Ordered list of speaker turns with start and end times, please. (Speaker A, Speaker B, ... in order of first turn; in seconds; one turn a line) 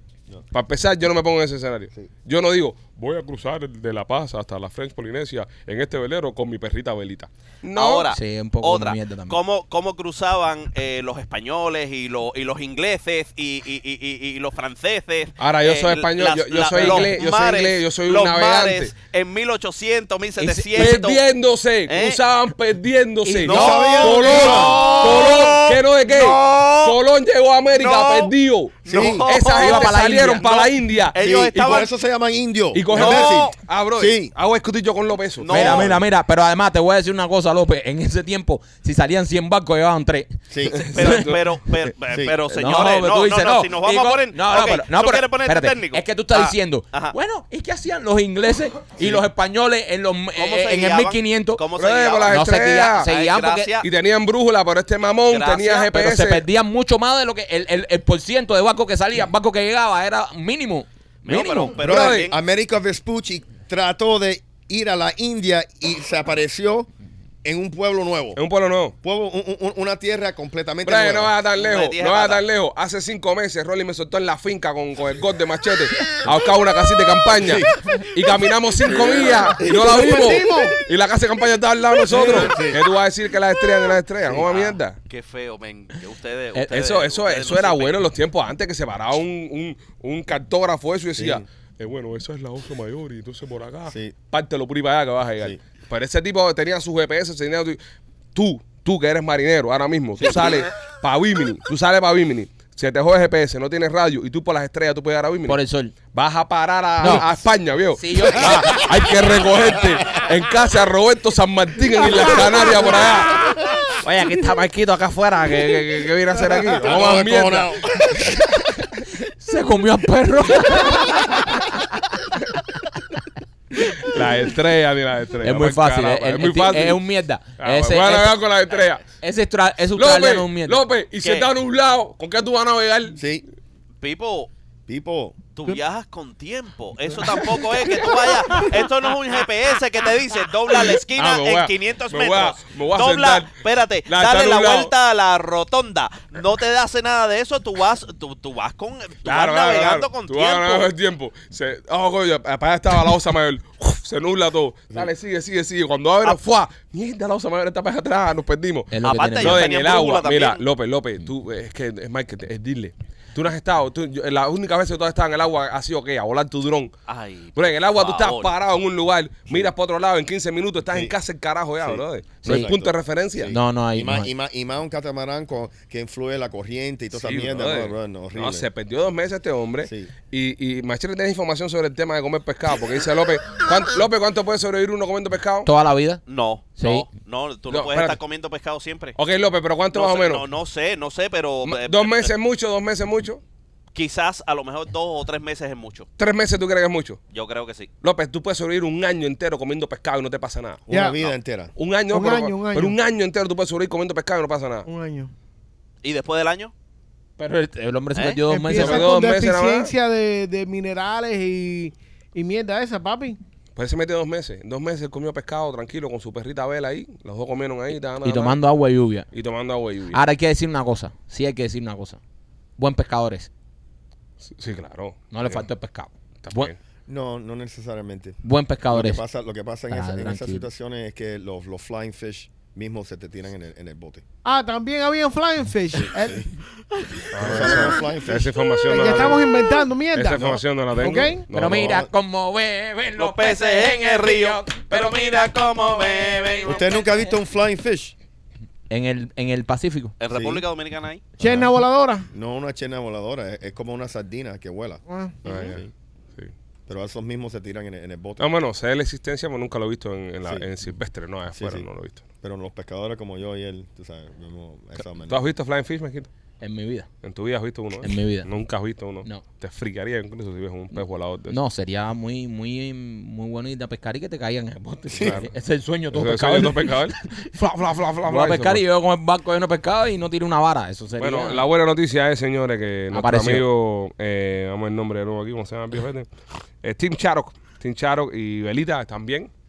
Speaker A: 0.5-8.1
Speaker B: 7.7-21.2
Speaker C: 8.1-9.4
Speaker A: 15.4-18.9
Speaker C: 16.8-17.1
Speaker C: 20.4-20.9
Speaker A: 20.7-31.8
Speaker B: 21.9-22.2
Speaker C: 23.2-24.0
Speaker D: 23.4-25.4
Speaker B: 23.4-27.0
Speaker B: 27.7-28.3
Speaker B: 28.9-31.9
Speaker D: 28.9-29.3
Speaker C: 29.6-30.5
Speaker D: 31.2-34.3
Speaker A: 32.7-35.9
Speaker B: 32.9-33.5
Speaker B: 35.4-36.0
Speaker C: 35.5-40.4
Speaker D: 35.6-35.9
Speaker D: 40.5-40.9
Speaker A: 40.7-41.4
Speaker B: 40.9-47.1
Speaker D: 42.1-42.4
Speaker C: 42.5-51.6
Speaker B: 50.4-52.5
Speaker A: 51.8-53.1
Speaker C: 52.3-53.7
Speaker B: 53.0-53.9
Speaker A: 53.8-56.4
Speaker B: 55.3-55.9
Speaker C: 55.9-61.7
Speaker B: 61.2-62.3
Speaker D: 61.8-66.9
Speaker A: 61.8-62.3
Speaker D: 67.4-68.4
Speaker A: 68.3-68.9
Speaker D: 69.0-71.3
Speaker A: 70.8-85.0
Speaker B: 71.5-72.4
Speaker D: 77.3-77.7
Speaker D: 79.6-80.3
Speaker E: 79.7-80.8
Speaker D: 82.1-82.8
Speaker B: 84.5-88.0
Speaker A: 86.7-97.8
Speaker D: 91.1-91.4
Speaker D: 93.9-94.1
Speaker A: 98.3-105.6
Speaker C: 105.5-105.9
Speaker A: 106.1-117.8
Speaker C: 107.0-107.3
Speaker C: 107.9-108.9
Speaker D: 109.8-110.2
Speaker C: 114.0-114.6
Speaker D: 116.6-118.4
Speaker C: 119.4-122.0
Speaker A: 123.8-127.0
Speaker C: 125.4-128.4
Speaker A: 127.6-129.1
Speaker C: 129.2-130.8
Speaker A: 130.0-133.2
Speaker D: 133.1-133.4
Speaker B: 134.0-134.5
Speaker D: 134.9-135.4
Speaker B: 135.6-150.9
Speaker A: 137.2-138.9
Speaker A: 140.7-143.5
Speaker A: 144.1-144.9
Speaker A: 149.2-166.9
Speaker C: 158.9-159.7
Speaker B: 159.0-160.6
Speaker B: 167.1-168.5
Speaker A: 167.6-173.6
Speaker D: 170.9-171.1
Speaker D: 171.8-178.7
Speaker C: 172.4-172.7
Speaker C: 173.5-174.3
Speaker A: 177.2-185.7
Speaker D: 179.8-180.1
Speaker C: 185.6-186.2
Speaker B: 186.3-189.2
Speaker C: 186.8-187.1
Speaker A: 187.7-188.2
Speaker A: 189.2-190.4
Speaker B: 189.9-192.3
Speaker A: 191.7-193.4
Speaker B: 193.9-196.1
Speaker A: 196.2-197.2
Speaker B: 197.3-197.9
Speaker A: 198.0-200.9
Speaker D: 200.9-201.7
Speaker E: 200.9-201.2
Speaker A: 201.7-204.9
Speaker E: 202.1-203.0
Speaker E: 204.8-205.3
Speaker B: 206.0-206.7
Speaker C: 207.4-209.1
Speaker B: 208.1-208.4
Speaker E: 208.5-213.4
Speaker A: 208.7-209.9
Speaker A: 213.8-218.6
Speaker C: 218.2-219.3
Speaker A: 219.3-220.2
Speaker C: 220.1-222.2
Speaker C: 222.8-223.5
Speaker A: 224.4-225.7
Speaker C: 225.3-226.7
Speaker A: 226.4-226.8
Speaker D: 227.1-234.2
Speaker C: 228.4-229.2
Speaker C: 229.9-230.7
Speaker E: 234.4-236.5
Speaker D: 235.9-236.5
Speaker E: 237.1-237.9
Speaker A: 237.3-239.5
Speaker D: 237.3-238.5
Speaker E: 238.8-241.5
Speaker A: 240.1-242.0
Speaker C: 241.5-247.2
Speaker D: 241.6-242.1
Speaker B: 243.2-246.9
Speaker D: 246.6-248.1
Speaker C: 248.9-250.1
Speaker B: 250.2-251.2
Speaker D: 250.3-250.6
Speaker D: 251.4-251.7
Speaker E: 251.4-252.3
Speaker D: 252.3-255.9
Speaker E: 255.1-255.3
Speaker A: 255.4-255.8
Speaker D: 256.9-258.5
Speaker A: 258.4-262.2
Speaker D: 261.5-261.9
Speaker D: 262.4-265.4
Speaker A: 265.2-266.3
Speaker C: 266.6-267.1
Speaker A: 267.2-271.6
Speaker C: 268.0-268.5
Speaker C: 271.5-277.4
Speaker D: 275.1-275.4
Speaker A: 275.2-275.5
Speaker A: 276.1-278.8
Speaker C: 278.3-281.6
Speaker A: 281.2-286.3
Speaker C: 283.1-283.6
Speaker A: 286.8-289.5